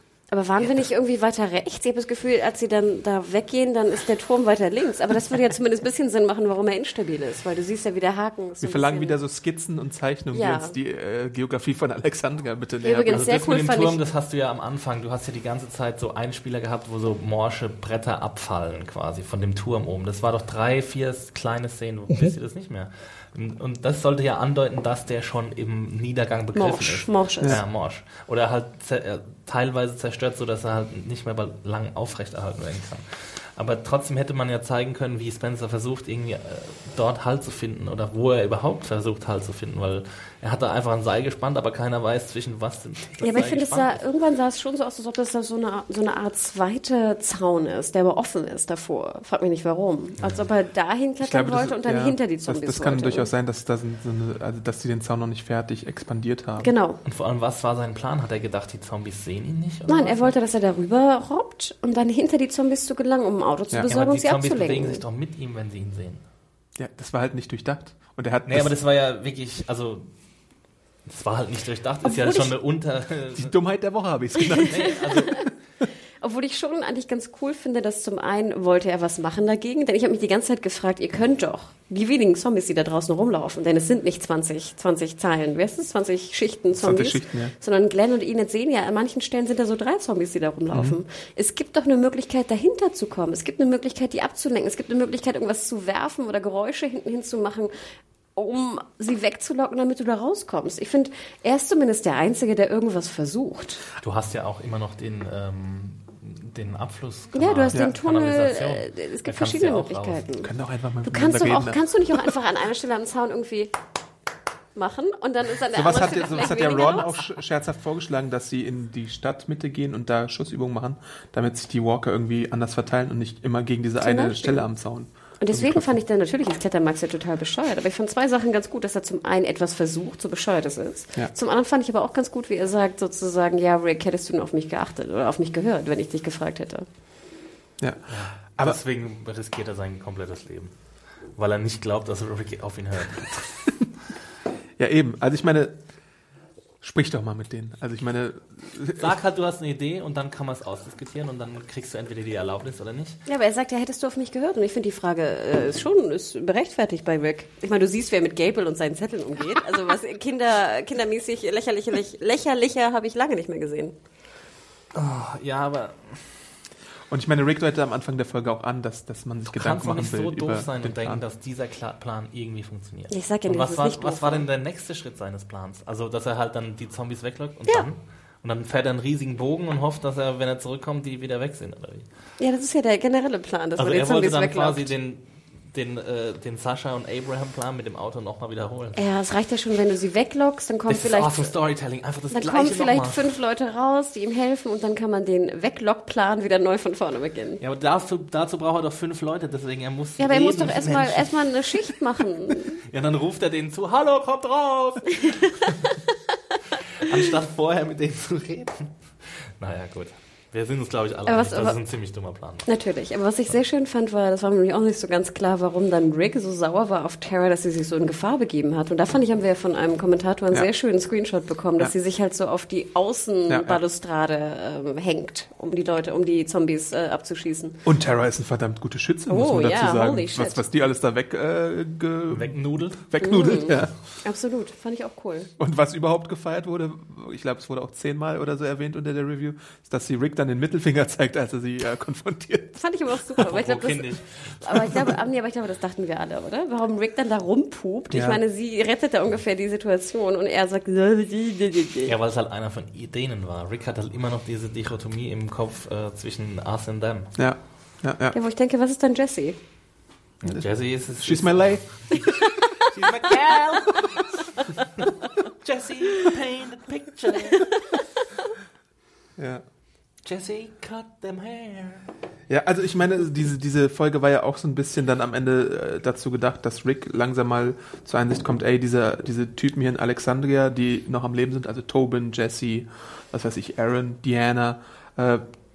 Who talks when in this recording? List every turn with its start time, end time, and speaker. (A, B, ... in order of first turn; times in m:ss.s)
0:00.3-0:09.2 A
0:08.6-0:13.2 B
0:10.3-0:10.8 A
0:12.8-0:14.0 A
0:13.1-0:44.0 C
0:26.6-0:27.6 A
0:43.2-0:53.3 A
0:50.2-0:50.5 C
0:51.2-0:56.7 B
0:56.6-0:57.0 A
0:57.0-1:00.3 C
0:59.9-1:05.0 A
1:03.9-1:06.2 C
1:06.8-1:08.7 B
1:08.5-1:10.1 C
1:11.1-1:13.6 C
1:12.0-1:12.5 A
1:13.4-1:15.3 B
1:14.7-1:15.5 C
1:16.2-1:37.7 A
1:26.8-1:27.5 B
1:30.7-1:31.0 B
1:38.4-1:43.8 A
1:44.0-1:50.2 C
1:47.3-1:50.5 A
1:50.4-1:51.8 B
1:51.0-1:53.7 A
1:54.8-1:57.3 A
1:55.7-2:06.0 B
2:04.0-2:04.6 A
2:05.4-2:16.9 A
2:17.8-2:18.8 B
2:18.1-2:20.8 C
2:21.3-2:23.7 C
2:24.8-2:25.8 B
2:26.8-2:29.1 B
2:29.0-2:33.2 C
2:33.3-2:44.0 A
2:44.9-2:46.4 C
2:47.1-2:51.2 B
2:49.5-3:02.1 C
2:53.1-2:54.5 A
3:02.4-3:04.9 A
3:03.8-3:09.0 C
3:09.0-3:11.5 A
3:10.9-3:13.3 C
3:12.3-3:17.6 A
3:17.6-3:22.0 C
3:20.2-3:22.8 A
3:22.8-3:25.7 C
3:27.0-3:32.7 C
3:31.3-3:31.8 A
3:32.7-3:47.8 A
3:43.5-3:43.8 B
3:47.8-3:54.0 B
3:49.3-3:50.6 A
3:52.3-3:53.1 C
3:53.2-3:55.5 A
3:55.6-4:02.8 B
4:02.8-4:12.1 A
4:03.5-4:05.1 C
4:08.1-4:08.4 B
4:12.1-4:17.3 C
4:17.4-4:18.4 B
4:18.3-4:19.6 A
4:20.4-4:24.4 C
4:20.4-4:21.9 B
4:25.6-4:27.7 C
4:29.4-4:29.6 B
4:30.2-4:32.1 C
4:32.5-4:45.4 B